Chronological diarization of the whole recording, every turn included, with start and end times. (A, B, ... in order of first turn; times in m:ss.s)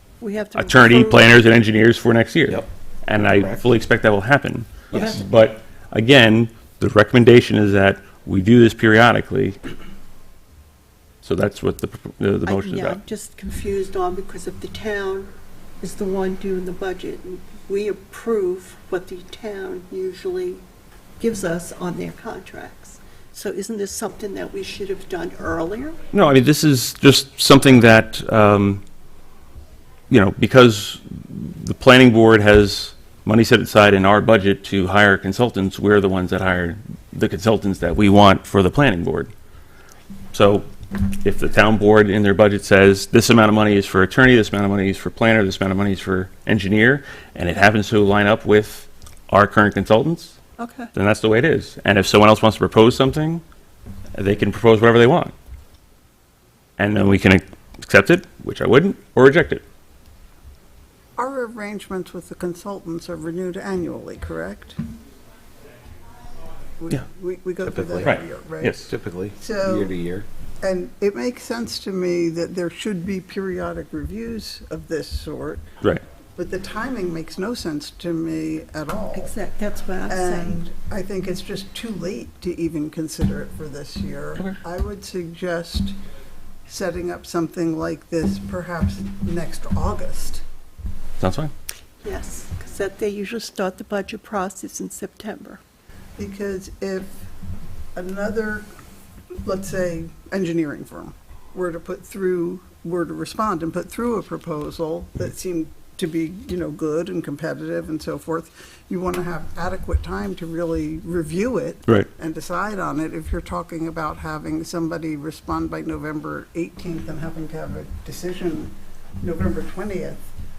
0:00.2-0:01.2 A
0:00.5-0:09.6 B
0:03.2-0:03.6 C
0:04.9-0:05.2 C
0:11.2-0:13.0 B
0:12.4-0:20.6 A
0:21.2-0:26.0 A
0:26.1-0:28.8 B
0:30.1-0:39.3 B
0:40.3-0:40.7 B
0:41.2-0:50.4 B
0:50.6-0:50.9 A
0:50.9-0:53.4 B
0:54.2-0:55.3 B
0:56.8-0:59.6 B
1:01.2-1:04.8 D
1:06.8-1:08.8 D
1:07.6-1:08.1 C
1:08.0-1:08.9 B
1:08.8-1:10.2 C
1:09.4-1:09.9 D
1:10.6-1:15.6 D
1:16.4-1:19.3 D
1:19.1-1:20.6 A
1:20.1-1:25.9 D
1:26.7-1:30.4 D
1:31.2-1:31.5 B
1:32.0-1:35.6 A
1:36.2-1:37.1 D
1:37.9-1:38.6 D
1:39.4-2:00.2 D